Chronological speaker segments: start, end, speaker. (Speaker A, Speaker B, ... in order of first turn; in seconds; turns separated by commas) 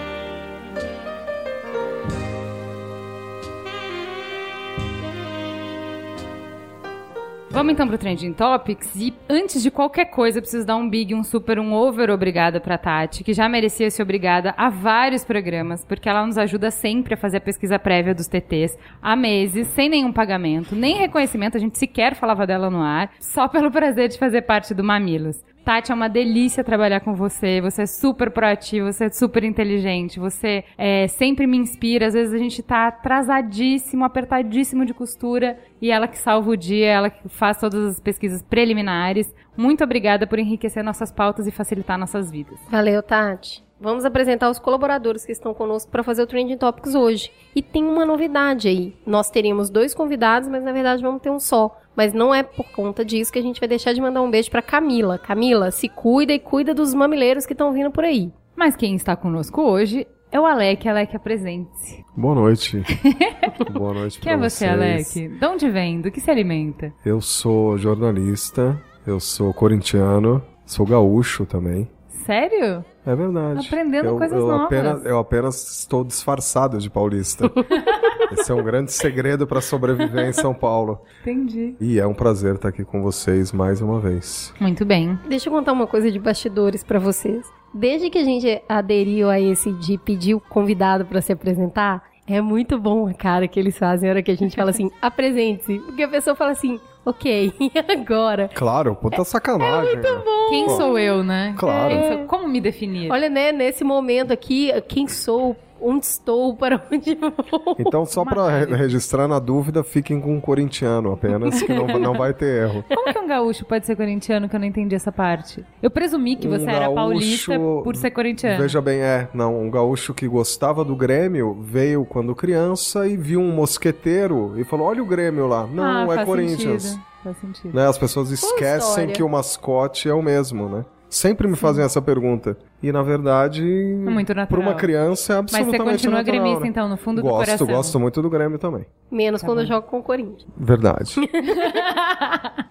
Speaker A: 7.5-42.6, Speaker B: 42.7-58.3, Speaker A: 58.5-62.0, Speaker C: 62.1-62.9, Speaker A: 62.9-63.6, Speaker C: 63.6-65.2, Speaker A: 64.2-66.9, Speaker C: 67.0-71.9, Speaker A: 72.1-72.9, Speaker C: 73.0-77.7, Speaker A: 73.5-75.0, Speaker C: 78.2-81.0, Speaker A: 81.2-81.8, Speaker C: 81.8-84.5, Speaker A: 84.6-85.2, Speaker B: 85.2-98.5, Speaker C: 98.5-100.9, Speaker B: 99.1-102.3, Speaker A: 100.5-103.2, Speaker C: 101.5-102.1, Speaker B: 103.1-107.9, Speaker C: 107.8-112.9, Speaker A: 108.2-108.9, Speaker A: 111.6-112.1, Speaker A: 112.9-118.8, Speaker C: 116.4-127.0, Speaker A: 125.8-127.8, Speaker C: 127.7-138.9, Speaker B: 128.4-129.2, Speaker A: 131.6-131.8, Speaker A: 134.1-134.9, Speaker A: 135.5-138.0, Speaker B: 139.1-140.4, Speaker A: 139.4-139.7, Speaker C: 140.5-141.4, Speaker B: 141.4-141.8, Speaker A: 141.6-142.5